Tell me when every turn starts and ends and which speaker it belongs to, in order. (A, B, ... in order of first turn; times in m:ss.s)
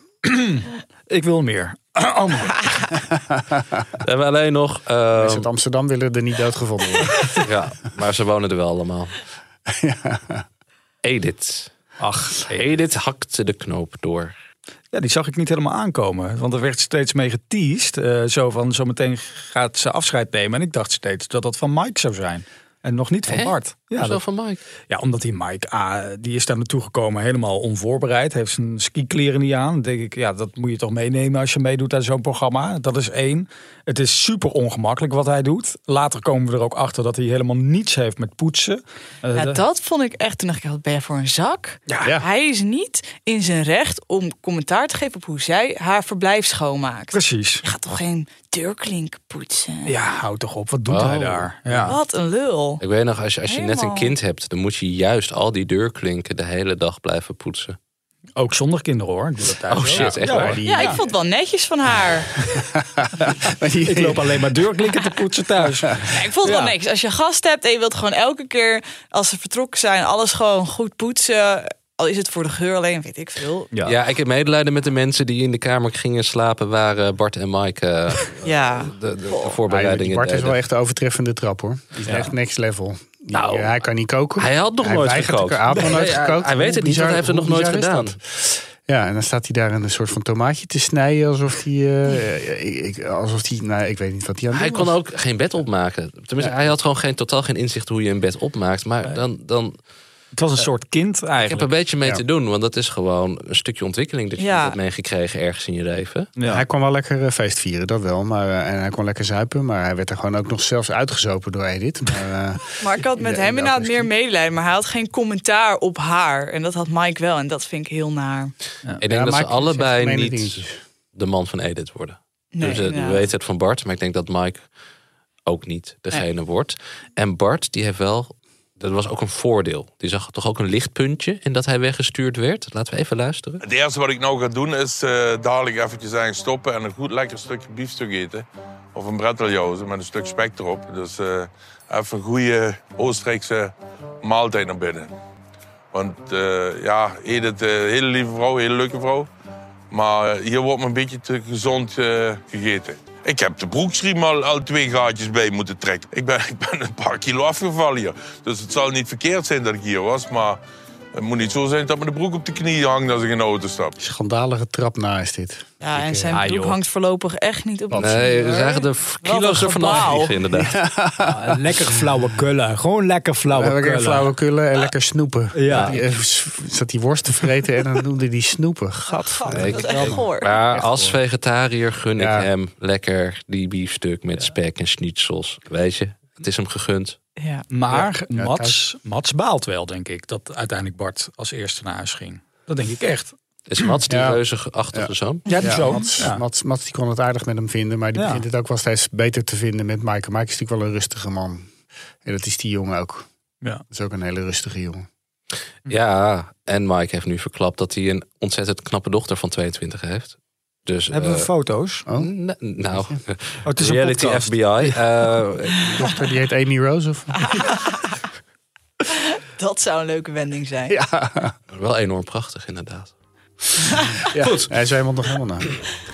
0:00.2-0:02.7 A
0:03.0-0:03.8 B
0:04.0-0:05.5 C
0:05.2-0:07.2 B
0:07.4-0:09.1 C
0:09.7-0:10.4 B
0:11.0-0:11.7 C
0:12.0-0:12.6 A
0:12.5-0:14.3 C
0:14.9-0:24.2 A
0:23.3-0:24.6 C
0:24.9-0:39.6 A
0:39.3-0:49.9 D
0:47.1-0:47.6 A
0:49.8-0:52.0 A
0:50.9-0:51.5 C
0:51.9-0:52.8 D
0:52.8-0:57.8 C
0:53.5-0:54.1 D
0:58.4-1:01.0 A
0:59.7-1:00.6 C
0:59.9-1:01.0 B
1:00.6-1:02.3 D
1:02.5-1:04.4 B
1:03.8-1:06.7 A
1:06.0-1:13.7 D
1:13.8-1:20.6 C
1:18.4-1:19.6 D
1:19.6-1:35.0 B
1:22.0-1:22.3 A
1:23.3-1:23.7 A
1:24.4-1:28.2 C
1:34.5-1:39.7 C
1:36.4-1:36.7 B
1:40.3-1:41.7 A
1:41.4-1:46.3 C
1:44.4-1:44.8 D
1:46.4-1:46.6 A
1:46.4-1:54.1 B
1:52.8-1:58.5 D
1:59.0-2:04.6 C
1:59.0-2:00.7 B
2:02.5-2:03.2 D
2:05.4-2:13.6 C
2:13.6-2:25.1 E
2:25.9-2:29.3 E
2:29.9-2:40.6 E
2:41.2-2:43.9 E
2:44.0-2:46.3 B
2:45.8-2:50.4 D
2:46.3-2:46.8 A
2:47.9-2:48.2 B
2:47.9-2:50.8 C
2:50.5-2:52.0 B
2:51.2-2:54.3 A
2:53.5-3:01.2 B
2:55.5-2:56.0 A
2:59.1-3:00.5 D
2:59.5-3:07.2 C
3:02.2-3:02.5 B
3:07.4-3:07.6 D
3:07.7-3:13.9 A
3:07.9-3:08.8 B
3:13.7-3:15.4 C
3:14.1-3:14.4 B
3:14.9-3:21.7 B
3:15.5-3:15.9 D
3:15.5-3:16.4 A
3:18.2-3:18.4 A
3:22.2-3:23.3 B
3:23.9-3:25.0 B
3:25.9-3:31.5 C
3:31.1-3:32.0 A
3:32.1-3:32.3 B
3:32.2-3:35.9 C
3:32.9-3:33.2 B
3:33.6-3:35.0 A
3:35.8-3:37.7 B
3:37.4-3:38.1 D
3:39.1-3:41.0 D
3:40.9-3:41.5 B
3:41.7-3:43.1 C
3:43.9-3:44.2 D
3:44.3-3:45.7 B
3:44.4-3:44.7 C